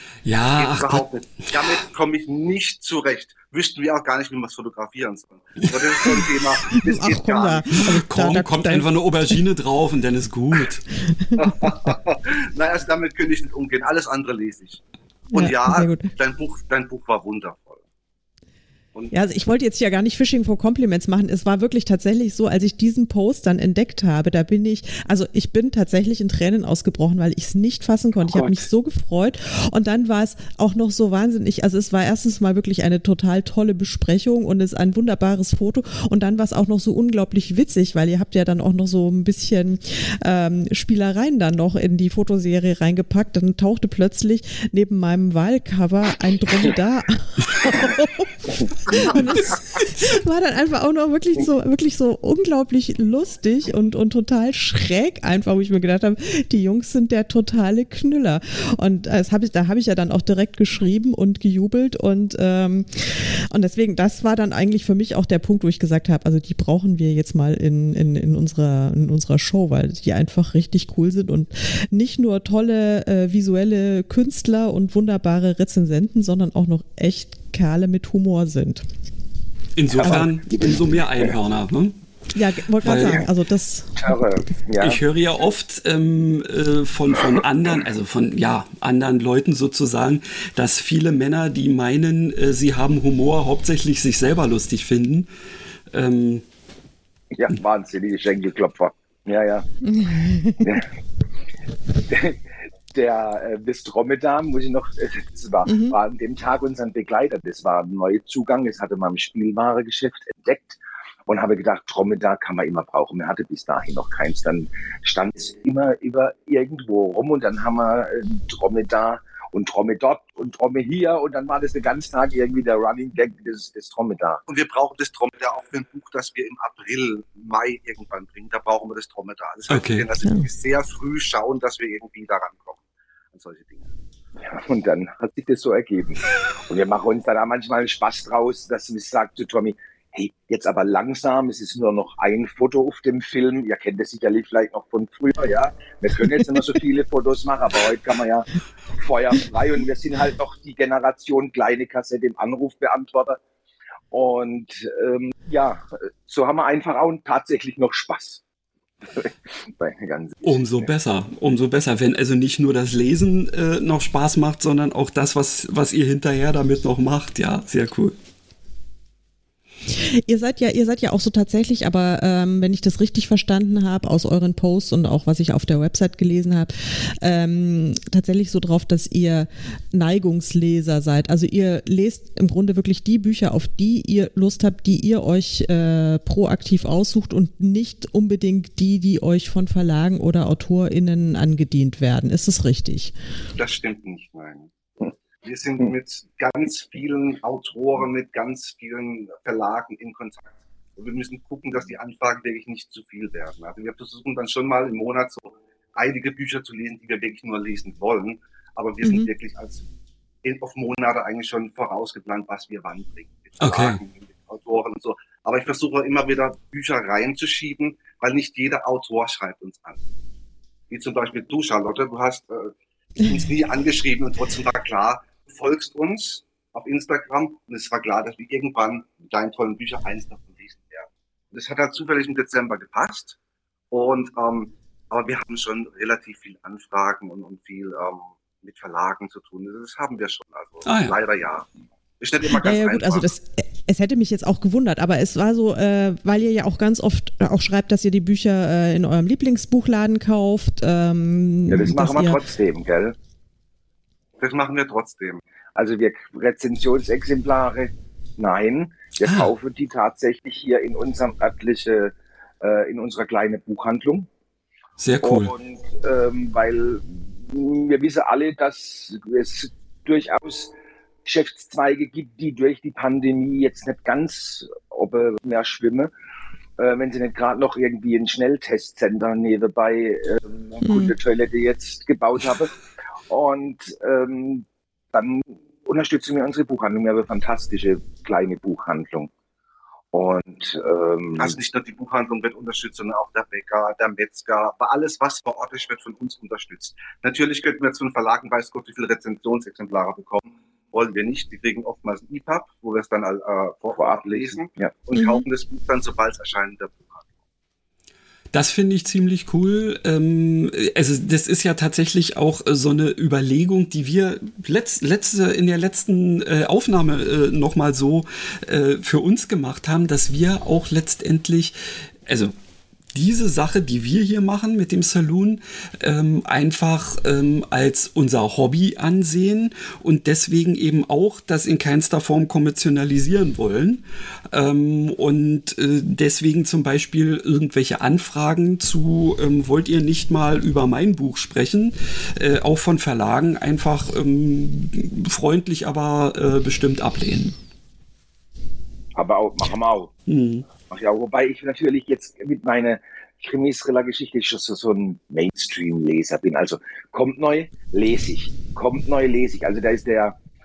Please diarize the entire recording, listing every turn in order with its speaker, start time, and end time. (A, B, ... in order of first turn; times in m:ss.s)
0:00.2-0:01.0 A
0:00.5-0:07.9 B
0:06.7-0:09.4 C
0:07.8-0:10.8 A
0:10.9-0:11.6 C
0:11.4-0:14.8 B
0:15.3-0:17.8 B
0:15.3-0:16.1 C
0:19.1-1:18.8 C
0:28.3-0:28.6 D
1:19.8-1:21.9 A
1:19.9-1:21.3 D
1:22.3-1:24.0 C
1:22.8-1:23.2 A
1:22.9-1:23.3 D
1:24.0-1:25.0 D
1:24.8-1:35.3 A
1:35.9-1:36.4 A
1:37.3-1:39.7 D
1:39.8-1:40.8 C
1:40.6-1:40.8 D
1:42.1-2:04.4 D
1:45.6-1:46.0 C
2:04.5-2:12.8 B
2:09.7-2:10.1 A
2:13.3-2:13.9 B
2:14.4-2:33.4 D
2:34.1-2:38.4 D
2:39.0-2:40.9 D
2:40.4-2:48.1 A
2:49.9-3:13.1 C
3:13.6-3:14.7 B
3:15.4-3:29.8 B
3:29.0-3:29.3 C
3:30.4-3:40.0 B
3:33.6-3:34.0 A
3:40.9-3:53.4 B
3:53.9-4:01.7 B
4:00.8-4:01.2 A
4:02.2-4:03.3 B
4:02.5-4:12.4 C
4:11.7-4:13.2 D
4:14.4-4:15.4 B
4:15.7-4:24.3 D
4:19.2-4:19.5 A
4:25.0-4:25.5 A
4:25.2-4:30.7 D
4:31.2-4:36.1 D
4:36.8-4:42.7 D
4:40.8-4:41.1 C
4:43.3-4:49.3 D
4:50.1-4:51.6 D
4:51.4-5:07.3 B
5:04.0-5:04.9 D
5:05.1-5:05.4 C
5:08.5-5:22.5 A
5:23.1-5:47.6 A
5:49.1-5:50.1 D
5:50.3-5:50.6 A
5:50.8-6:00.4 D